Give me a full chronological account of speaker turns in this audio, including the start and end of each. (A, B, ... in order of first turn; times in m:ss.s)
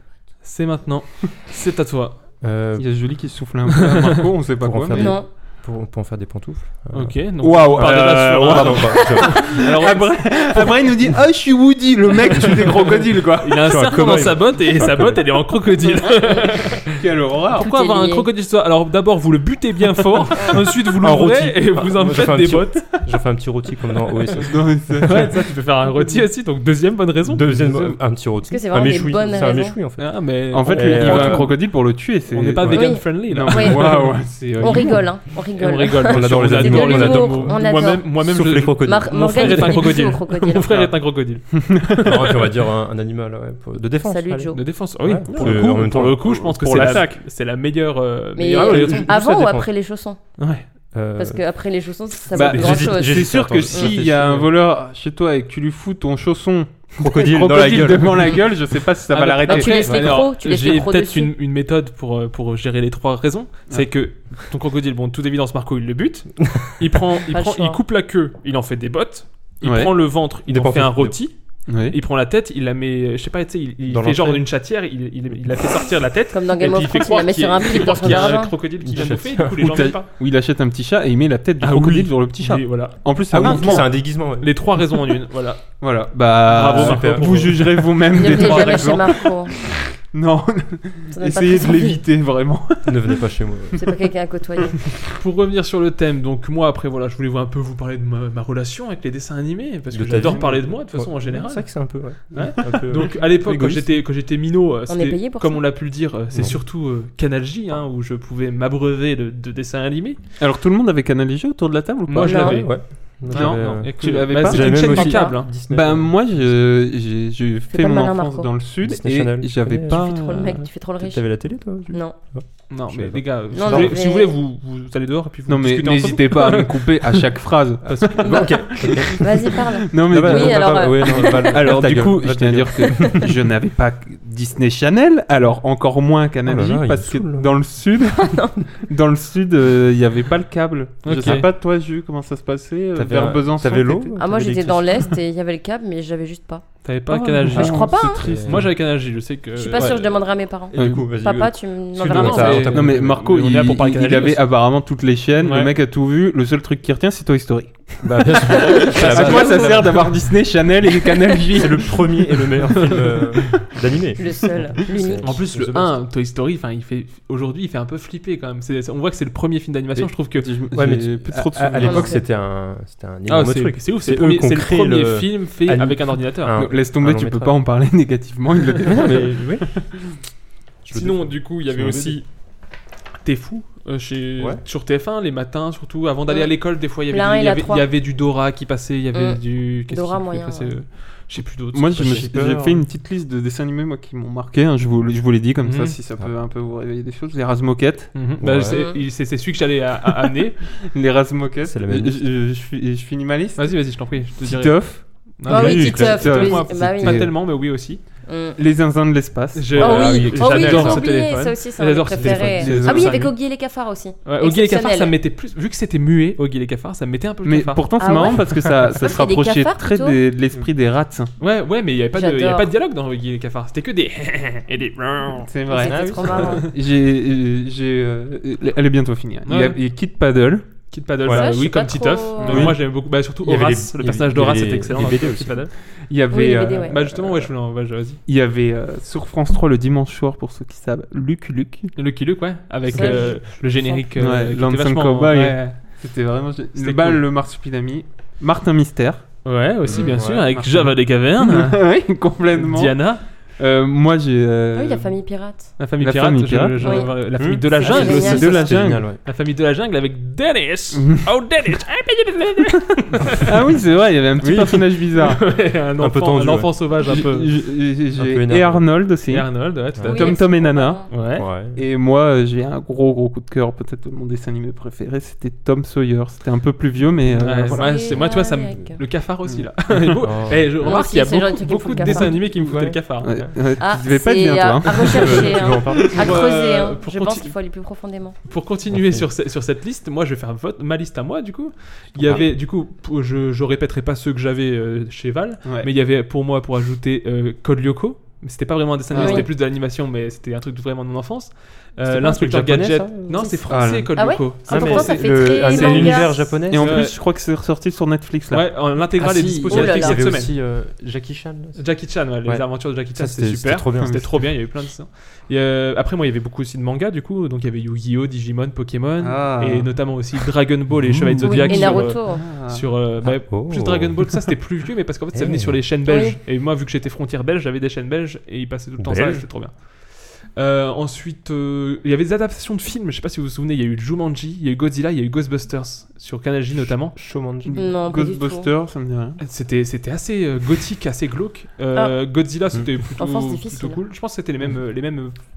0:00.4-0:02.2 A
0:02.4-0:02.9 B
0:02.8-0:05.2 C
0:04.6-0:09.6 B
0:04.9-0:05.3 D
0:06.9-0:10.7 A
0:07.4-0:13.6 C
0:13.4-0:16.9 A
0:13.6-0:15.5 B
0:17.0-0:17.6 C
0:17.5-0:22.9 A
0:17.6-0:18.3 D
0:20.9-0:24.6 B
0:24.4-0:25.4 C
0:25.0-0:28.0 A
0:27.2-0:31.5 B
0:28.5-0:29.8 D
0:30.0-0:31.6 A
0:30.5-0:35.1 C
0:32.3-0:34.2 A
0:32.7-0:40.8 D
0:35.5-0:42.3 A
0:36.0-0:40.1 B
0:41.6-0:42.1 C
0:42.0-0:47.1 B
0:44.0-0:44.6 D
0:44.5-0:49.1 A
0:45.3-0:47.2 C
0:48.4-0:50.2 D
0:48.5-0:49.7 B
0:50.4-0:50.6 A
0:50.9-0:51.4 B
0:51.2-0:53.8 D
0:52.3-0:54.6 B
0:52.3-0:59.8 C
0:57.0-0:58.5 B
0:59.1-1:20.1 A
0:59.4-1:01.3 D
0:59.9-1:00.2 B
1:07.3-1:07.8 D
1:09.6-1:09.9 C
1:10.4-1:11.3 B
1:11.7-1:12.0 C
1:13.9-1:14.5 B
1:15.3-1:15.6 B
1:16.3-1:18.5 D
1:18.0-1:19.8 B
1:19.6-1:23.9 C
1:21.6-1:25.6 A
1:21.7-1:22.0 B
1:23.3-1:24.7 B
1:25.8-1:33.2 C
1:26.4-1:28.9 A
1:26.6-1:27.8 B
1:28.1-1:29.5 D
1:28.4-1:28.6 B
1:31.1-1:32.0 D
1:32.8-1:33.8 B
1:33.8-1:34.8 D
1:35.2-1:50.2 A
1:39.9-1:44.0 B
1:40.2-1:40.6 C
1:44.9-1:45.6 D
1:46.3-1:46.6 B
1:50.4-1:52.7 C
1:52.1-1:55.5 A
1:52.2-1:52.6 D
1:52.2-1:56.5 B
1:53.3-2:00.6 C
1:54.9-1:55.3 D
1:57.7-1:58.5 D
1:58.8-2:04.0 B
1:59.9-2:01.3 D
2:01.9-2:02.2 D
2:02.7-2:06.7 A
2:03.5-2:04.4 D
2:05.5-2:09.1 C
2:07.8-2:13.3 B
2:08.2-2:11.7 D
2:09.9-2:24.2 C
2:16.4-2:17.7 B
2:18.2-2:18.6 D
2:21.0-2:21.5 A
2:21.1-2:21.5 B
2:22.9-2:25.1 B
2:24.2-2:26.9 D
2:26.8-2:30.2 A
2:27.1-2:28.7 C
2:27.5-2:28.2 D
2:27.9-2:28.8 B
2:29.6-2:32.6 D
2:29.7-2:30.0 B
2:30.5-2:33.4 B
2:30.7-2:31.1 C
2:32.0-2:34.6 A
2:32.2-2:42.0 C
2:35.4-2:35.7 A
2:38.0-2:40.1 B
2:38.7-2:39.7 D
2:38.9-2:39.8 A
2:41.5-2:46.0 B
2:42.7-2:43.4 A
2:44.2-2:45.4 D
2:45.2-2:50.5 A
2:50.3-2:52.2 C
2:50.7-2:57.6 B
2:51.8-2:52.2 D
2:53.3-2:56.6 A
2:56.5-2:59.8 C
2:58.8-2:59.8 B
3:00.8-3:02.2 B
3:00.9-3:02.3 A
3:03.2-3:12.3 A
3:07.0-3:07.9 D
3:09.1-3:10.7 D
3:11.7-3:18.2 C
3:12.0-3:12.8 B
3:15.6-3:16.0 A
3:18.1-3:20.6 A
3:18.4-3:18.9 B
3:18.7-3:19.0 D
3:20.9-3:23.9 C
3:21.6-3:22.2 B
3:23.6-3:28.0 A
3:24.4-3:27.3 C
3:25.5-3:27.2 D
3:25.5-3:27.2 B
3:28.2-3:28.6 D
3:28.6-3:31.0 C
3:29.5-3:33.4 A
3:29.8-3:31.2 B
3:29.8-3:35.1 D
3:32.2-3:32.8 B
3:32.5-3:33.2 C
3:34.2-3:38.5 A
3:37.4-3:41.3 C
3:38.0-3:40.2 D
3:41.4-3:45.5 A
3:42.1-3:42.7 D
3:45.4-3:50.7 C
3:45.7-3:46.7 D
3:45.8-3:46.6 B
3:46.4-3:46.6 A
3:49.4-3:49.8 A
3:50.9-3:55.7 A
3:51.2-3:51.5 B
3:51.3-3:52.7 D
3:52.4-3:52.8 C
3:52.5-3:55.7 B
3:56.1-3:57.5 C
3:56.3-3:56.9 D
3:56.8-3:58.2 A
3:58.2-4:01.9 C
4:01.9-4:05.8 A
4:02.9-4:04.0 D
4:02.9-4:03.2 C
4:04.2-4:09.3 C
4:06.8-4:07.2 A
4:09.4-4:11.8 A
4:09.8-4:10.6 B
4:10.5-4:15.2 C
4:12.5-4:13.2 A
4:14.8-4:15.7 D
4:15.8-4:23.4 A
4:16.0-4:17.1 C
4:16.8-4:18.7 D
4:17.3-4:19.2 B
4:17.8-4:19.0 C
4:23.4-4:25.4 C
4:24.4-4:24.8 B
4:25.1-4:27.5 A
4:26.0-4:26.8 B
4:27.0-4:31.2 C
4:28.1-4:28.9 B
4:29.3-4:30.4 A
4:30.1-4:31.1 D
4:31.1-4:31.5 A
4:31.3-4:31.8 B
4:31.7-4:37.9 C
4:37.3-4:37.7 B
4:37.4-4:43.4 A
4:37.8-4:39.0 D
4:39.5-4:40.0 C
4:40.2-4:41.0 B
4:40.8-4:42.4 D
4:42.0-4:43.5 B
4:43.2-4:46.3 C
4:43.8-4:48.4 D
4:45.0-4:46.4 B
4:46.2-4:47.5 A
4:48.5-5:07.2 A
4:48.9-4:49.3 B
4:52.1-4:52.6 B
4:59.1-4:59.4 C
4:59.1-4:59.5 D
5:02.0-5:03.6 B
5:03.3-5:06.4 D
5:03.7-5:04.3 C
5:04.7-5:07.0 B
5:06.6-5:08.7 C
5:08.5-5:10.5 A
5:09.2-5:11.8 B
5:09.7-5:10.3 D
5:11.8-5:37.2 A
5:12.4-5:14.5 B
5:14.0-5:14.3 C
5:19.2-5:19.9 C
5:20.9-5:21.8 B
5:21.4-5:22.4 D
5:21.6-5:22.8 C
5:23.2-5:24.4 B
5:25.3-5:25.8 B
5:26.1-5:26.4 D
5:29.0-5:29.5 B
5:36.9-5:37.9 B
5:37.6-5:39.4 C
5:37.7-5:38.7 D
5:39.4-5:45.4 A
5:43.2-5:44.0 D